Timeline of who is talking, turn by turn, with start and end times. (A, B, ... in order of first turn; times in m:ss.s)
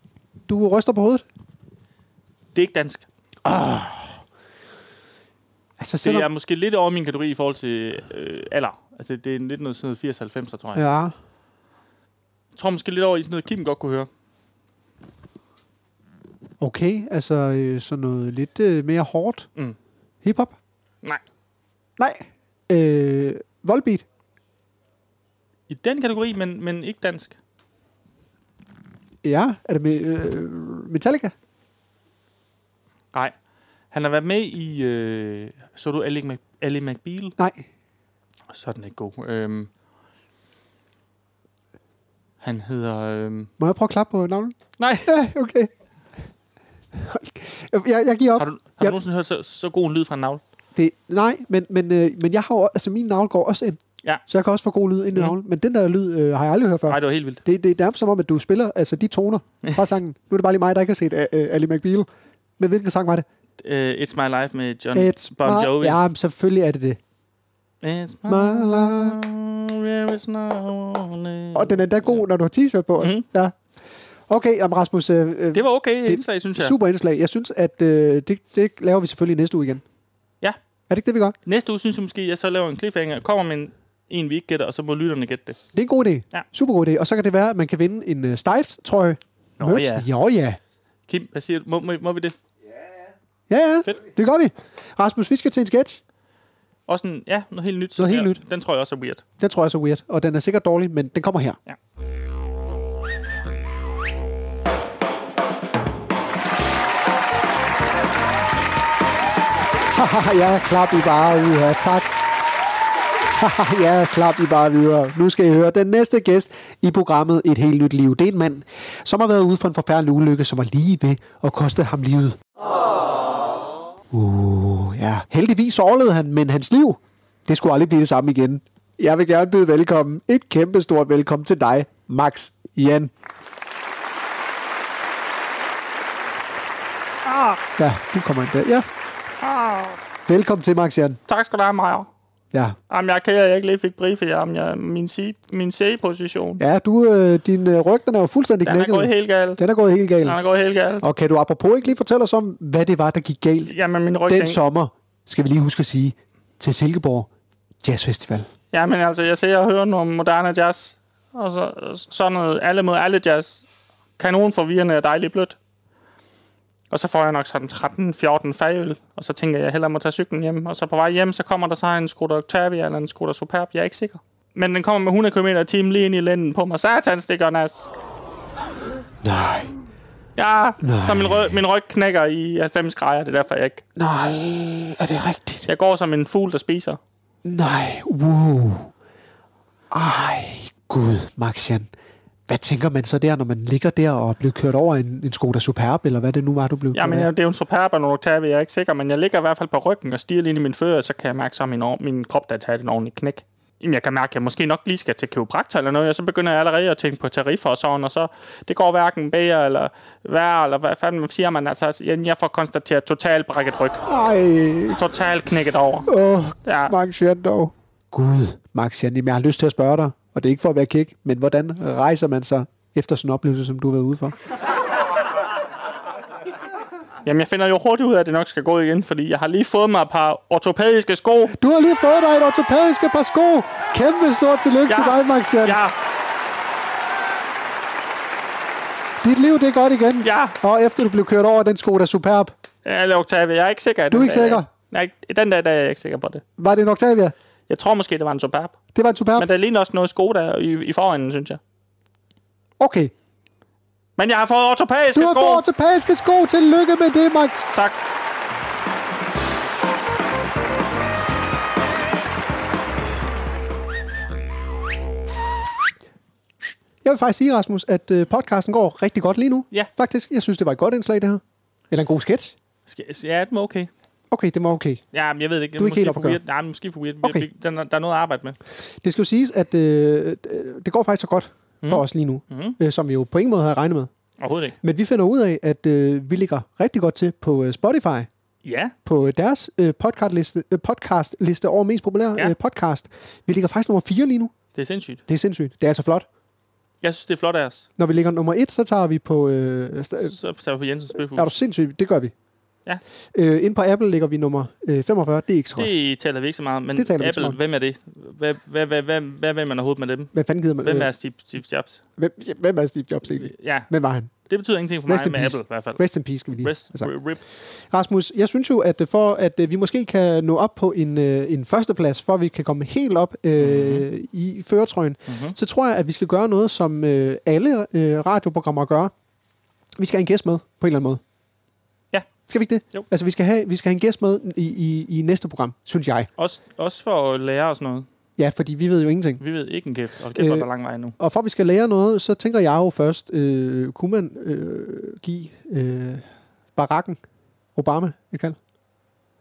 0:00.5-0:01.2 A
0:02.5-0:03.0 B
0:03.4-0:04.2 A
0:05.8-0:06.3 A
0:06.0-0:10.8 B
0:10.7-0:11.1 A
0:12.5-0:14.1 B
0:16.6-0:19.5 A
0:20.2-0:20.6 A
0:22.0-0:24.0 A
0:25.7-0:27.4 B
0:29.2-0:31.3 A
0:33.9-0:37.3 B
0:37.4-0:37.6 A
0:38.5-0:39.7 B
0:42.4-0:43.5 B
0:43.6-0:44.5 A
0:44.8-0:45.1 B
0:45.0-0:45.7 A
0:46.9-0:49.0 A
0:48.4-0:50.4 B
0:50.8-1:02.1 A
0:56.9-0:57.4 B
1:02.6-1:03.2 A
1:03.6-1:06.0 B
1:04.9-1:07.0 A
1:07.8-1:12.2 B
1:08.3-1:09.2 A
1:11.5-1:13.6 A
1:13.0-1:13.2 B
1:14.3-1:19.8 A
1:15.5-1:16.8 B
1:20.9-1:21.4 A
1:21.4-1:25.6 B
1:25.7-1:30.6 A
1:29.6-1:30.1 B
1:31.1-1:32.4 B
1:33.5-1:36.0 A
1:36.9-1:39.2 B
1:38.0-1:38.4 A
1:39.4-1:41.6 A
1:49.9-1:52.2 A
1:53.3-2:02.4 A
2:04.1-2:13.1 A
2:17.2-2:17.6 B
2:17.8-2:18.9 A
2:19.4-2:20.0 B
2:20.3-2:21.2 A
2:21.3-2:22.1 B
2:22.9-2:26.6 B
2:26.6-2:30.4 A
2:28.6-2:29.6 B
2:30.2-2:31.0 B
2:31.0-2:33.7 A
2:33.6-2:34.6 B
2:34.3-2:37.3 A
2:37.8-2:38.5 A
2:38.7-2:43.6 B
2:44.2-2:45.6 B
2:46.9-2:57.9 B
2:59.2-2:59.7 A
3:00.4-3:03.8 B
3:00.8-3:01.6 A
3:04.0-3:05.7 A
3:05.6-3:07.0 B
3:07.4-3:08.9 A
3:09.9-3:11.9 A
3:12.5-3:17.3 A
3:16.9-3:34.0 B
3:34.0-3:35.0 A
3:34.9-3:36.1 B
3:36.1-3:44.4 A
3:36.6-3:36.9 B
3:47.2-3:51.6 B
3:51.5-3:55.8 A
3:54.9-3:56.0 B
3:59.2-4:02.5 A
4:00.2-4:00.6 B
4:02.8-4:06.4 B
4:04.1-4:04.7 A
4:06.6-4:07.3 A
4:07.7-4:08.8 B
4:08.9-4:09.5 A
4:09.4-4:11.6 B
4:12.8-4:13.1 A
4:14.2-4:15.6 B
4:15.1-4:17.7 A
4:17.7-4:18.0 B
4:27.0-4:32.5 A
4:32.8-4:33.9 B
4:34.3-4:35.0 A
4:35.1-4:38.6 B
4:35.8-4:36.4 A
4:38.8-4:44.1 A
4:41.8-4:42.8 B
4:44.4-4:44.8 B
4:44.8-4:48.3 A
4:48.6-4:48.9 B
4:49.0-4:54.5 A
4:54.7-4:55.2 B
4:55.3-4:56.2 A
4:57.0-4:57.9 B
4:58.0-5:00.4 A
5:00.2-5:01.5 B
5:01.3-5:02.3 A
5:03.3-5:05.9 A
5:05.8-5:12.0 B
5:07.0-5:07.6 A
5:10.3-5:11.1 A
5:12.2-5:14.3 A
5:13.3-5:13.9 B
5:14.5-5:16.0 B
5:15.1-5:29.1 A
5:16.5-5:17.4 B
5:23.6-5:24.1 B
5:25.3-5:25.6 B
5:30.0-5:31.2 A
5:32.5-5:36.3 A
5:36.4-5:38.1 B
5:38.4-5:39.4 A
5:39.4-5:41.2 B
5:40.3-5:47.2 A
5:47.7-5:48.6 A